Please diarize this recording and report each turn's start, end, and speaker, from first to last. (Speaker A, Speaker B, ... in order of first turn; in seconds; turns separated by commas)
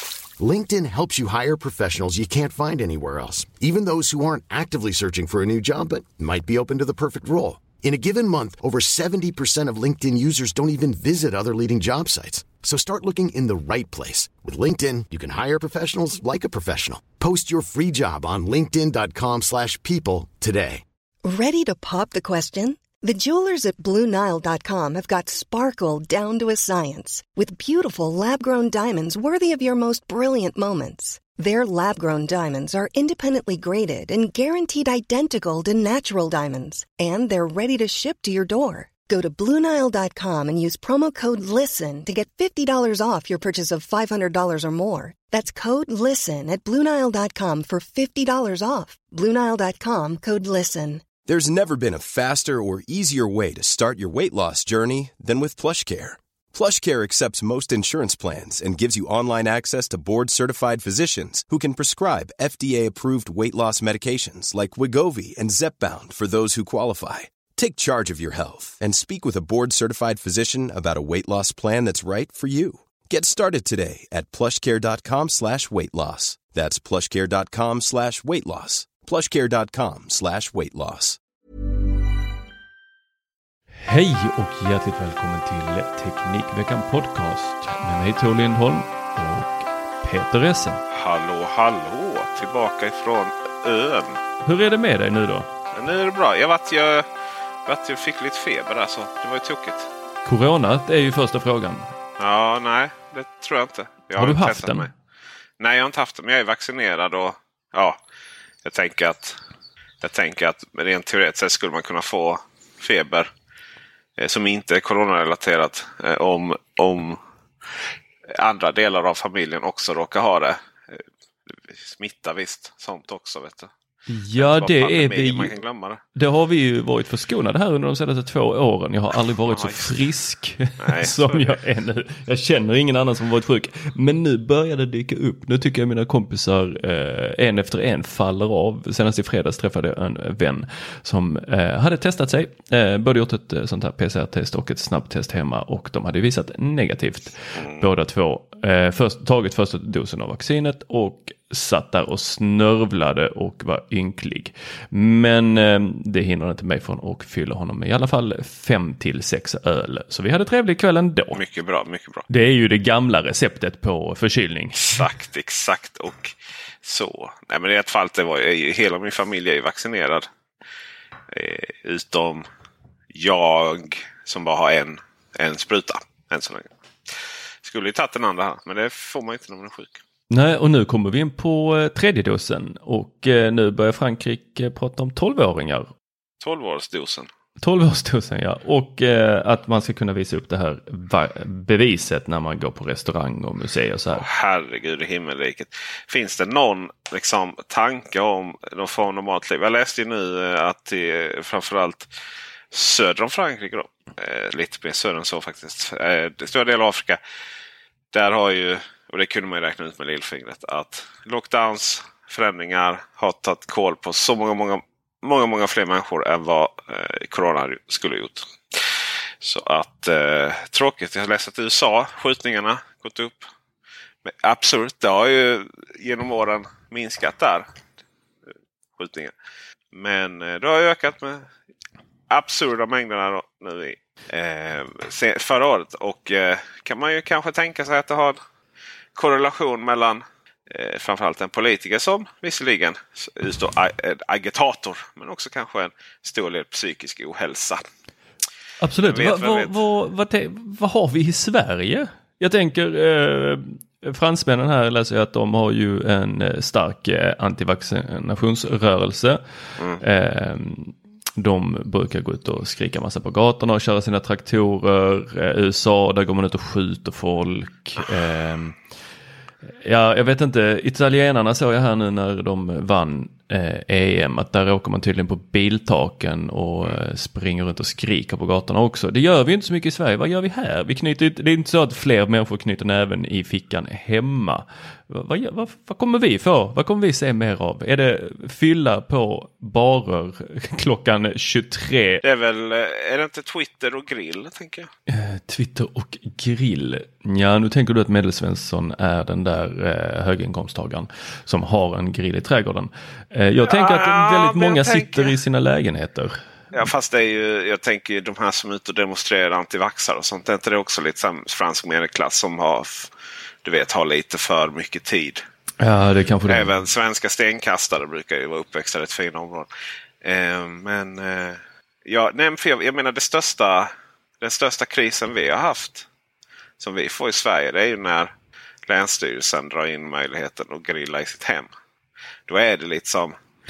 Speaker A: 0.4-20.8, Speaker B: 21.2-51.1, Speaker C: 51.3-81.2, Speaker D: 83.8-90.8, Speaker E: 90.9-94.2, Speaker D: 94.4-95.5, Speaker E: 95.7-97.1, Speaker E: 97.7-99.9, Speaker D: 100.2-101.9, Speaker E: 102.2-104.9, Speaker D: 104.2-104.9, Speaker E: 105.6-108.0, Speaker E: 108.6-109.4, Speaker E: 110.0-113.3, Speaker E: 114.2-117.2, Speaker E: 118.3-123.7, Speaker D: 124.1-125.5, Speaker E: 124.4-126.0, Speaker D: 126.2-161.4, Speaker E: 129.4-129.9, Speaker E: 130.8-131.6, Speaker E: 147.6-147.9, Speaker E: 161.3-162.3, Speaker D: 162.3-164.9, Speaker E: 164.8-170.3, Speaker E: 171.3-172.5, Speaker E: 173.1-180.0, Speaker D: 180.3-185.9, Speaker E: 186.4-187.3, Speaker D: 187.6-194.2, Speaker E: 194.2-202.1, Speaker E: 202.7-207.2, Speaker E: 208.1-223.5, Speaker E: 224.2-227.7, Speaker E: 229.0-229.3, Speaker E: 229.9-231.5, Speaker E: 232.3-238.4, Speaker E: 239.2-247.8, Speaker D: 248.8-259.4, Speaker E: 249.0-249.8, Speaker D: 260.0-268.8, Speaker D: 269.8-292.2, Speaker E: 292.2-294.9, Speaker D: 295.1-306.4, Speaker E: 303.6-305.4, Speaker E: 306.7-313.1, Speaker E: 313.6-315.4, Speaker D: 315.8-316.7, Speaker E: 316.5-319.7, Speaker E: 320.2-326.1, Speaker E: 326.8-328.3, Speaker E: 328.9-331.7, Speaker E: 332.5-333.4